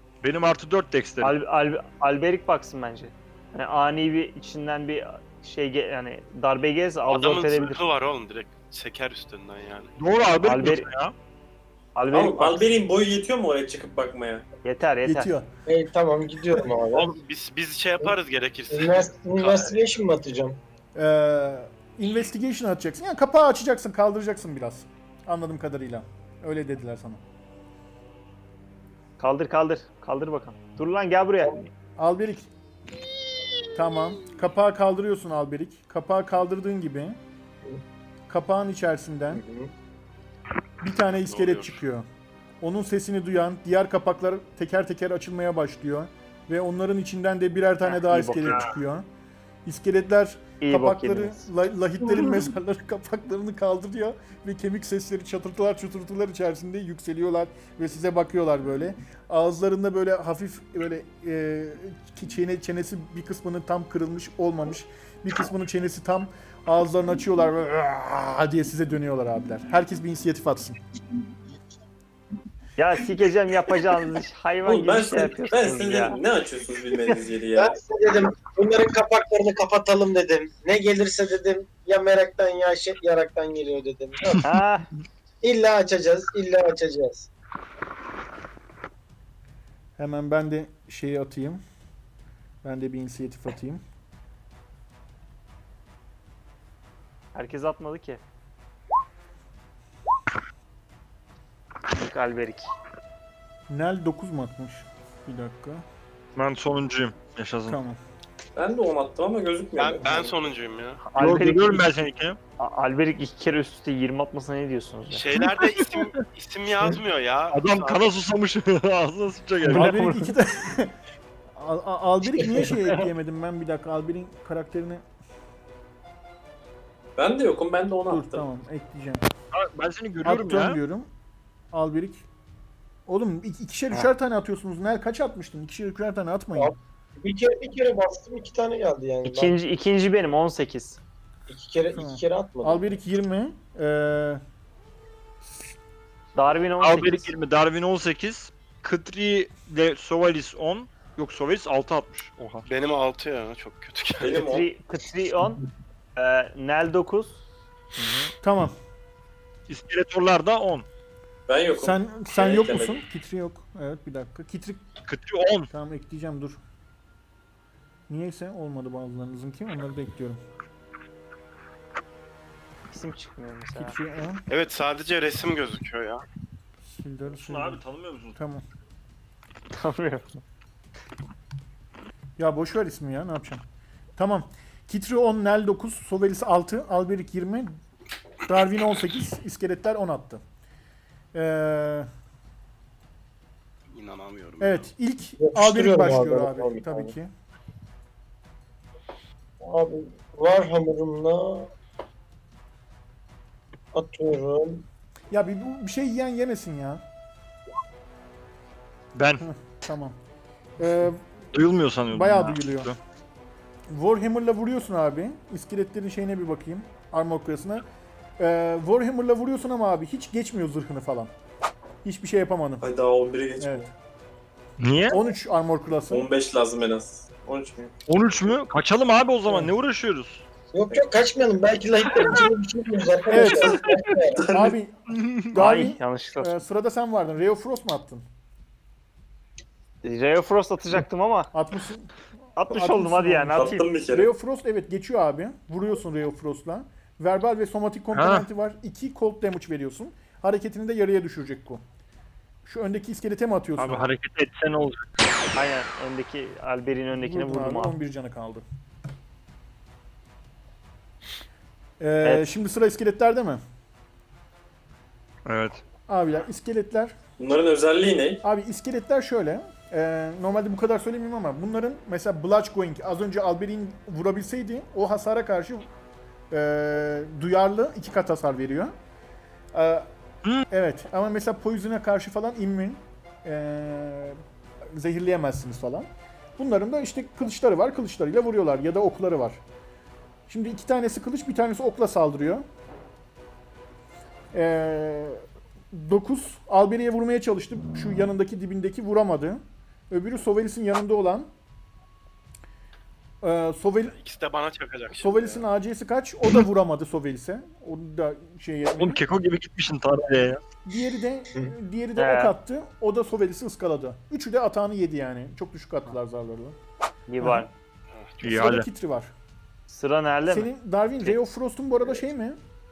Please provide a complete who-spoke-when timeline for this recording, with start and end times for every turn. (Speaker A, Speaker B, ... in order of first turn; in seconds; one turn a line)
Speaker A: 0.2-1.4
Speaker B: 1.2-7.8
Speaker C: 7.1-9.9
Speaker A: 10.0-11.1
Speaker B: 10.4-10.9
Speaker B: 11.9-12.7
Speaker D: 12.1-14.4
Speaker B: 14.6-15.3
Speaker E: 15.0-15.5
Speaker F: 15.7-17.1
Speaker C: 16.9-19.8
Speaker F: 18.7-20.6
Speaker E: 20.9-27.2
Speaker B: 29.2-31.7
Speaker E: 32.0-32.5
Speaker E: 33.7-37.2
Speaker E: 38.3-39.4
Speaker F: 39.3-39.7
Speaker E: 40.8-42.1
Speaker C: 41.2-41.8
Speaker E: 42.6-49.0
Speaker B: 47.8-48.6
Speaker E: 49.6-70.8
Speaker B: 50.6-51.4
Speaker B: 72.8-76.2
Speaker D: 74.6-77.8
Speaker F: 77.5-84.5
Speaker B: 84.4-84.9
Speaker F: 85.4-87.3
Speaker E: 90.0-91.6
Speaker E: 92.6-93.8
Speaker B: 97.3-98.2
Speaker B: 101.9-102.7
Speaker E: 103.7-105.8
Speaker A: 106.3-107.8
Speaker E: 107.7-108.0
Speaker D: 108.5-110.4
Speaker C: 109.8-111.0
Speaker B: 111.1-111.9
Speaker A: 111.1-112.4
Speaker B: 112.6-115.2
Speaker C: 115.1-118.1
Speaker A: 115.3-116.2
Speaker A: 117.5-120.0
Speaker B: 119.6-120.3
Speaker E: 119.7-121.0
Speaker E: 121.5-125.0
Speaker D: 127.2-128.4
Speaker E: 128.1-129.2
Speaker A: 129.5-130.8
Speaker E: 130.2-131.1
Speaker E: 131.7-132.2
Speaker E: 133.1-136.7
Speaker F: 136.6-139.5
Speaker B: 139.2-141.0
Speaker F: 141.5-142.8
Speaker E: 141.9-144.4
Speaker B: 146.3-147.3
Speaker A: 146.8-152.7
Speaker C: 152.7-154.4
Speaker D: 154.2-154.7
Speaker B: 154.3-155.6
Speaker B: 156.2-157.4
Speaker A: 158.0-158.3
Speaker E: 158.4-158.7
Speaker A: 159.7-160.8
Speaker D: 161.5-163.0
Speaker E: 161.7-164.8
Speaker A: 165.1-165.7
Speaker E: 165.7-166.6
Speaker E: 168.1-170.4
Speaker B: 172.9-173.9
Speaker E: 173.8-174.4
Speaker C: 174.5-176.2
Speaker E: 176.8-177.8
Speaker A: 177.3-178.3
Speaker E: 178.3-178.6
Speaker B: 179.7-180.4
Speaker E: 182.4-183.6
Speaker E: 184.2-187.7
Speaker E: 188.4-190.4
Speaker E: 191.3-192.1
Speaker C: 193.9-194.9
Speaker E: 194.6-197.3
Speaker F: 195.4-197.1
Speaker F: 199.6-201.7
Speaker F: 203.9-204.8
Speaker E: 205.3-207.0
Speaker A: 209.1-209.4
Speaker E: 209.4-210.2
Speaker E: 210.8-211.2
Speaker A: 211.5-212.9
Speaker E: 212.1-212.9
Speaker E: 213.9-217.8
Speaker E: 218.4-221.3
Speaker E: 222.0-222.8
Speaker D: 222.8-223.9
Speaker E: 223.6-223.9
Speaker A: 224.8-225.2
Speaker E: 225.1-226.3
Speaker D: 226.1-227.9
Speaker A: 228.1-230.4
Speaker F: 230.7-234.5
Speaker E: 233.3-233.8
Speaker D: 234.3-234.7
Speaker E: 234.4-234.9
Speaker A: 235.1-235.5
Speaker E: 235.4-238.2
Speaker B: 235.5-236.6
Speaker B: 240.0-241.5
Speaker E: 241.5-251.8
Speaker B: 242.6-243.9
Speaker D: 243.5-244.3
Speaker A: 248.1-248.5
Speaker E: 252.6-254.1
Speaker A: 253.8-255.1
Speaker B: 255.5-257.9
Speaker E: 257.1-258.6
Speaker E: 262.0-263.6
Speaker B: 262.2-262.5
Speaker A: 265.4-265.8
Speaker E: 266.1-267.1
Speaker D: 267.4-268.4
Speaker E: 268.4-275.9
Speaker E: 276.5-278.9
Speaker E: 279.7-280.1
Speaker E: 280.7-289.6
Speaker E: 290.5-292.6
Speaker E: 294.5-301.5
Speaker E: 303.4-304.1
Speaker C: 304.1-305.6
Speaker E: 305.1-309.2
Speaker A: 309.0-310.6
Speaker E: 310.9-316.8
Speaker B: 312.2-312.5
Speaker B: 317.3-317.7
Speaker E: 317.4-317.7
Speaker A: 318.4-318.9
Speaker E: 318.4-319.3
Speaker B: 319.9-320.7
Speaker E: 320.4-322.6